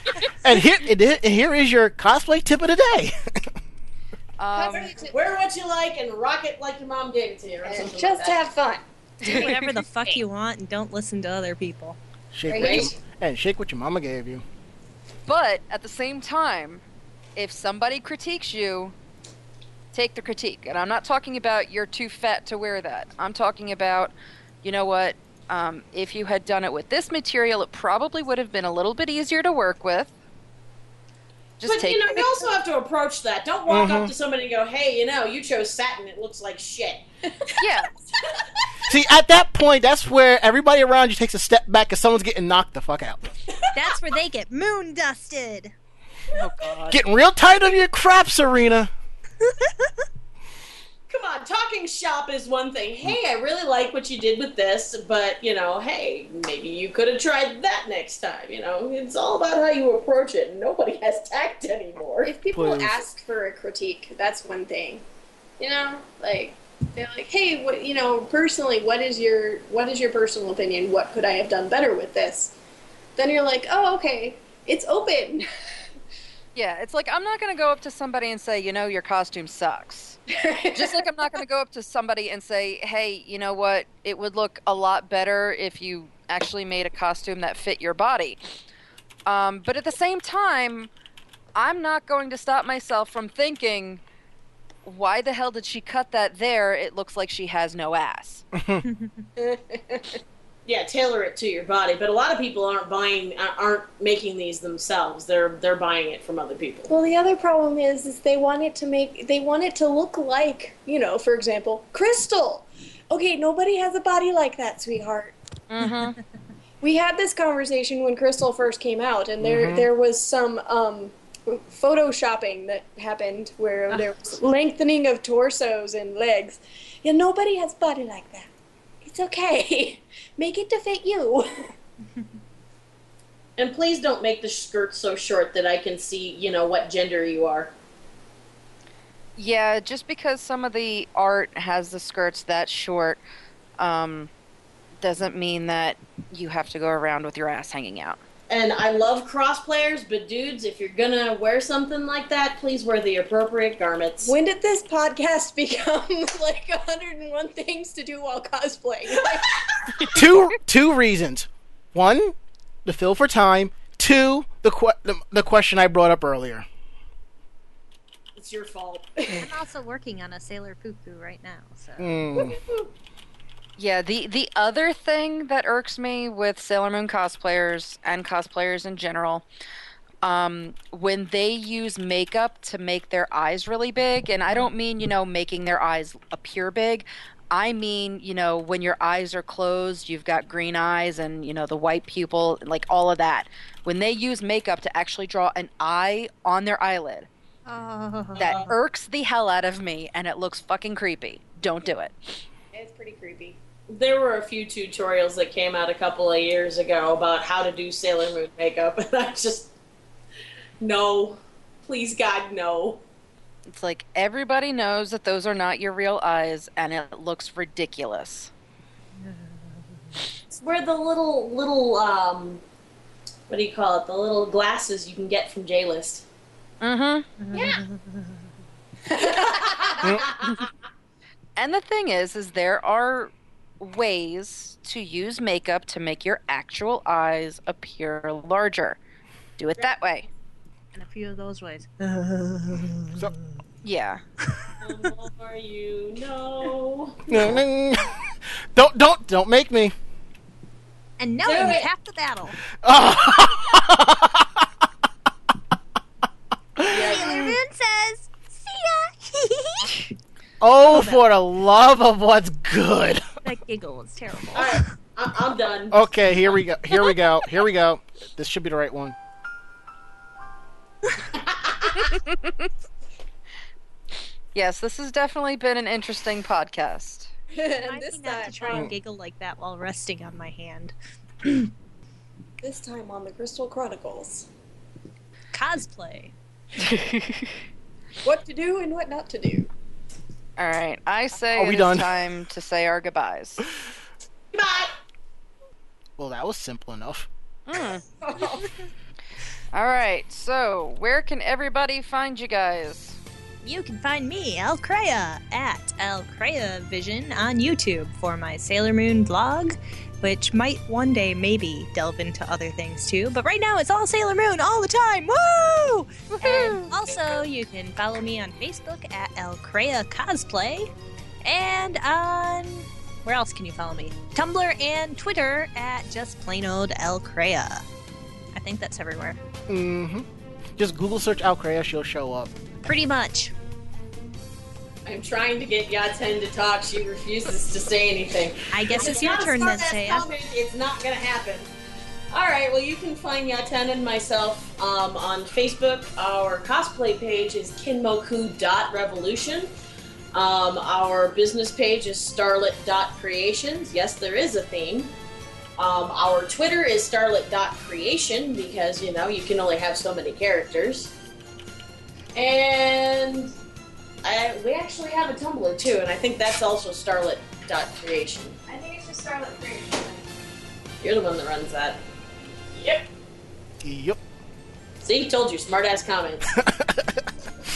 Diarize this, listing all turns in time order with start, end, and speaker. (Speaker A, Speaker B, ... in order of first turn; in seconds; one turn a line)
Speaker A: 0.4-3.5
Speaker B: 4.4-4.9
Speaker C: 4.5-5.1
Speaker D: 4.7-8.4
Speaker C: 7.6-9.5
Speaker B: 9.2-9.6
Speaker E: 9.2-12.0
Speaker A: 12.3-14.4
Speaker C: 12.5-12.9
Speaker D: 12.6-12.9
Speaker B: 15.3-16.8
Speaker B: 17.4-18.9
Speaker B: 19.9-30.1
Speaker B: 31.6-32.3
Speaker D: 31.6-37.0
Speaker A: 33.7-34.1
Speaker C: 37.3-38.7
Speaker B: 37.6-37.9
Speaker A: 38.9-43.3
Speaker E: 43.7-45.7
Speaker B: 46.3-47.0
Speaker A: 46.9-48.9
Speaker E: 49.4-49.9
Speaker D: 51.1-62.3
Speaker C: 62.2-65.0
Speaker A: 62.5-63.0
Speaker C: 65.6-72.5
Speaker C: 73.2-75.5
Speaker B: 76.5-80.2
Speaker C: 80.3-81.1
Speaker B: 80.7-88.4
Speaker B: 89.2-90.9
Speaker B: 91.5-94.0
Speaker B: 94.8-98.4
Speaker A: 98.5-98.8
Speaker E: 98.8-99.2
Speaker C: 99.4-100.2
Speaker D: 100.7-106.9
Speaker C: 106.9-115.3
Speaker B: 115.7-116.2
Speaker C: 116.8-128.5
Speaker A: 119.4-119.9
Speaker C: 129.0-131.7
Speaker D: 133.6-137.7
Speaker B: 139.4-143.2
Speaker B: 143.8-144.3
Speaker B: 145.0-148.2
Speaker D: 148.5-154.3
Speaker C: 154.2-160.2
Speaker A: 160.1-166.7
Speaker D: 168.3-169.4
Speaker E: 169.4-172.2
Speaker A: 172.0-172.6
Speaker D: 172.4-172.9
Speaker B: 173.8-179.4
Speaker B: 180.2-197.3
Speaker E: 197.7-198.5
Speaker B: 198.4-202.2
Speaker D: 198.4-198.7
Speaker C: 202.7-203.6
Speaker D: 203.9-209.7
Speaker D: 210.8-213.0
Speaker B: 213.7-218.5
Speaker E: 219.2-219.5
Speaker D: 220.5-222.6
Speaker D: 223.5-226.2
Speaker B: 226.8-227.3
Speaker E: 227.4-228.4
Speaker C: 229.1-229.7
Speaker D: 229.2-230.7
Speaker B: 231.6-239.0
Speaker B: 239.6-240.2
Speaker E: 240.9-243.6
Speaker B: 243.8-244.2
Speaker E: 244.4-244.8
Speaker D: 244.8-247.4
Speaker A: 247.3-249.9
Speaker E: 251.2-252.6
Speaker D: 251.4-251.9
Speaker A: 252.8-254.7
Speaker A: 256.8-257.5
Speaker D: 256.9-257.4
Speaker E: 256.9-260.1
Speaker A: 260.6-263.2
Speaker E: 260.8-261.2
Speaker E: 263.4-264.9
Speaker D: 264.5-266.0
Speaker A: 265.9-269.1
Speaker D: 271.3-272.1
Speaker B: 272.1-272.7
Speaker B: 274.5-277.3
Speaker C: 277.5-278.9
Speaker E: 277.8-281.7
Speaker C: 282.6-284.5
Speaker E: 285.5-286.3
Speaker B: 286.8-287.5
Speaker C: 288.2-289.7
Speaker B: 290.6-293.6
Speaker A: 291.5-292.1
Speaker D: 294.5-294.9
Speaker A: 296.2-297.3
Speaker B: 297.7-298.0
Speaker C: 298.2-298.7
Speaker B: 299.7-303.2
Speaker E: 303.6-320.9
Speaker C: 316.4-316.9
Speaker E: 321.4-327.9
Speaker E: 328.5-329.4
Speaker A: 329.7-332.5
Speaker E: 332.8-333.5
Speaker D: 335.1-341.7
Speaker E: 338.7-340.3
Speaker D: 342.3-349.7
Speaker D: 350.3-355.1
Speaker D: 355.8-361.1
Speaker D: 362.3-363.5
Speaker D: 364.2-368.6
Speaker C: 368.7-370.2
Speaker D: 371.0-372.0
Speaker A: 373.8-374.2
Speaker D: 375.0-376.5
Speaker A: 376.5-377.2